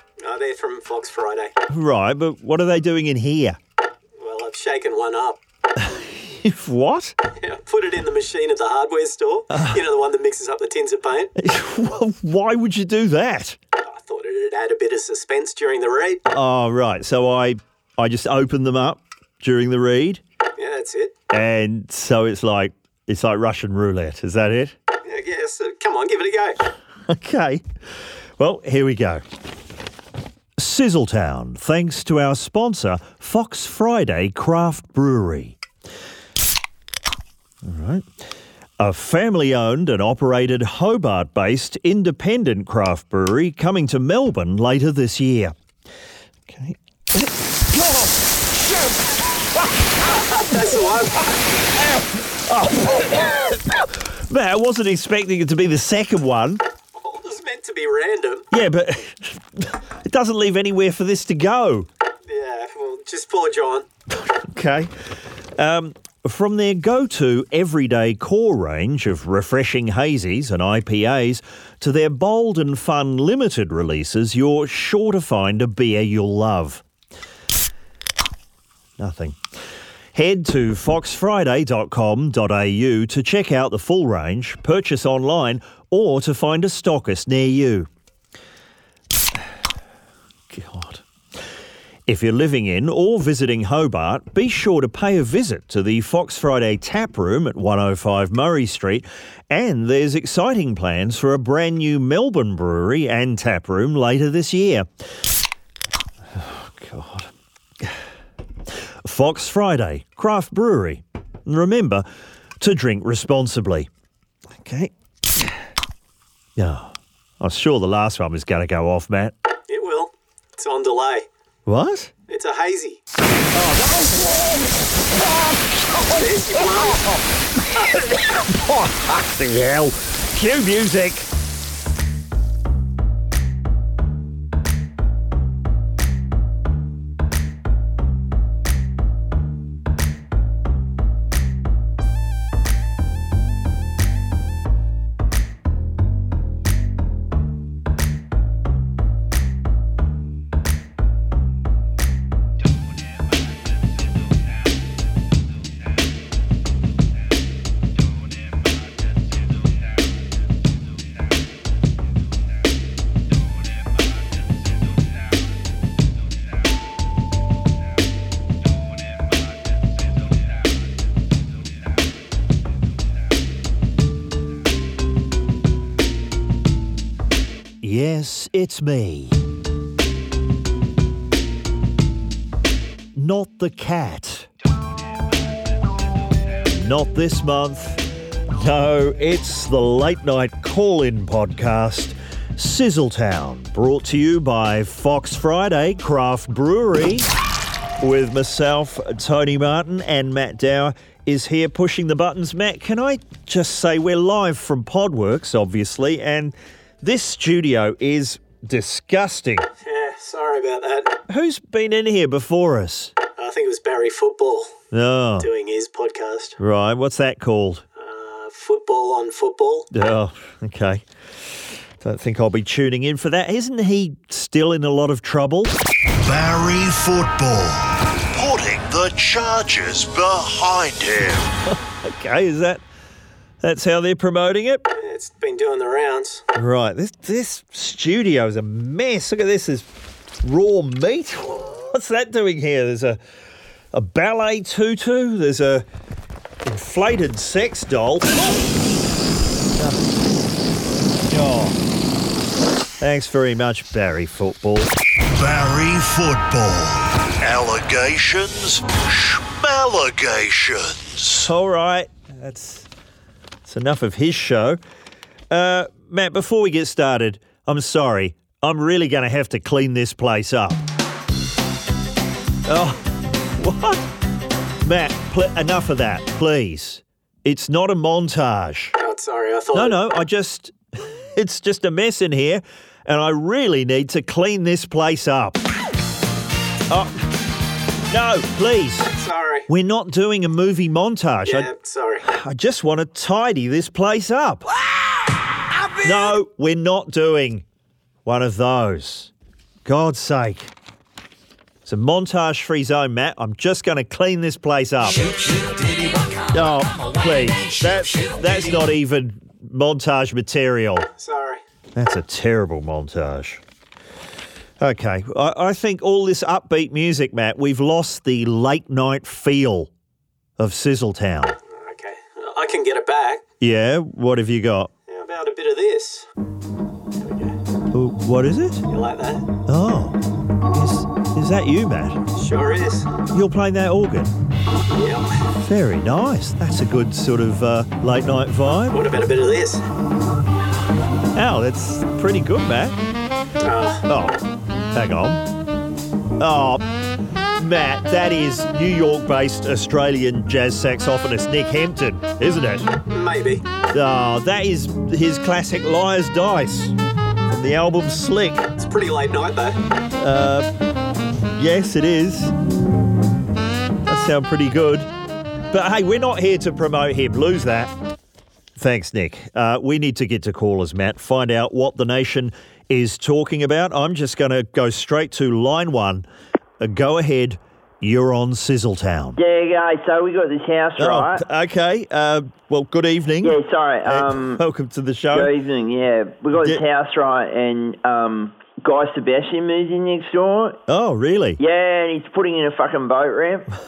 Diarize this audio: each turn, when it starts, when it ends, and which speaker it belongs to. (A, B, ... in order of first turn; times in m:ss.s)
0:00.2-0:01.5 A
0:01.7-0:03.6 B
0:04.2-0:05.4 A
0:05.8-0:07.2 B
0:07.4-0:11.3 A
0:09.5-0:09.8 B
0:11.4-0:13.6 B
0:13.8-0:16.2 A
0:16.3-0:20.2 B
0:20.6-0:21.1 A
0:21.3-0:24.8 B
0:25.0-0:26.6 A
0:27.1-0:27.6 B
0:28.4-0:29.2 B
0:30.6-0:35.6 B
0:37.6-0:38.1 B
0:38.8-0:45.5 B
0:46.5-0:48.9 B
0:50.3-0:51.4 A
0:51.8-0:56.6 B
0:57.0-0:58.5 A
0:58.5-1:01.9 B
1:02.3-1:03.8 A
1:04.1-1:04.9 B
1:05.6-1:16.8 B
1:19.0-1:19.4 B
1:20.1-1:27.9 B
1:30.5-1:31.0 B
1:32.1-1:44.8 B
1:46.3-1:47.3 B
1:49.0-1:52.0 B
1:52.6-1:53.9 B
1:54.5-1:55.5 B
1:56.6-1:59.3 B
1:59.7-2:01.3 A
2:01.6-2:02.1 B
2:02.3-2:03.0 A
2:03.5-2:04.3 B
2:06.1-2:07.1 A
2:07.7-2:08.1 A
2:08.5-2:11.3 B
2:57.8-2:59.4 B
3:03.2-3:04.5 B
3:06.7-3:08.0 B
3:08.6-3:17.3 B
3:18.0-3:29.7 B
3:29.8-3:31.2 A
3:31.3-3:33.1 B
3:33.4-3:34.7 A
3:34.9-3:35.5 B
3:35.4-3:36.6 A
3:36.6-3:37.8 B
3:38.0-3:39.9 A
3:39.9-3:41.0 B
3:42.0-3:45.8 B
3:46.2-3:51.6 C
3:51.7-3:52.8 B
3:53.6-3:54.8 B
3:54.9-3:56.4 A
3:56.6-3:59.9 B
4:00.4-4:03.2 B
4:03.9-4:05.8 B
4:06.6-4:08.3 B
4:11.3-4:11.8 B
4:13.0-4:14.9 B
4:15.3-4:21.5 C
4:21.4-4:22.9 B
4:23.6-4:24.8 B
4:25.5-4:30.8 B
4:32.6-4:34.1 B
4:34.8-4:38.9 B
4:39.0-4:40.0 A
4:39.7-4:40.8 B
4:41.4-4:45.6 B
4:46.9-4:47.2 B
4:48.1-4:49.1 B
4:49.1-4:49.6 A
4:49.7-4:51.7 B
4:51.4-4:52.2 A
4:52.2-4:54.6 B
4:56.0-4:57.6 B
4:58.2-4:59.3 B
4:59.8-5:00.7 B
5:01.8-5:05.3 B
5:06.5-5:11.1 B
5:11.2-5:11.6 A
5:12.0-5:13.6 B
5:14.8-5:19.9 B
5:20.6-5:21.6 B
5:21.7-5:23.4 A
5:23.6-5:24.9 B
5:25.1-5:26.3 A
5:27.2-5:27.6 A
5:27.9-5:28.8 B
5:28.9-5:29.4 A
5:29.7-5:30.2 B
5:30.7-5:32.2 B
5:32.3-5:33.1 A
5:33.3-5:34.3 B
5:34.9-5:35.4 A
5:35.6-5:39.0 B
5:38.9-5:39.8 A
5:41.3-5:43.0 B
5:43.6-5:44.0 A
5:44.1-5:45.4 B
5:46.4-5:46.8 B
5:47.6-5:52.9 B
5:53.1-5:53.6 A
5:53.9-5:56.9 B
5:57.5-5:58.7 B
5:58.8-5:59.8 A
6:00.2-6:00.7 B
6:01.6-6:02.5 B
6:04.1-6:05.1 B
6:05.7-6:07.9 B
6:08.8-6:16.2 B
6:16.8-6:19.4 B
6:19.4-6:21.4 D
6:21.0-6:25.6 B
6:23.4-6:24.6 D
6:25.3-6:30.8 D
6:30.9-6:31.6 B
6:31.6-6:33.6 D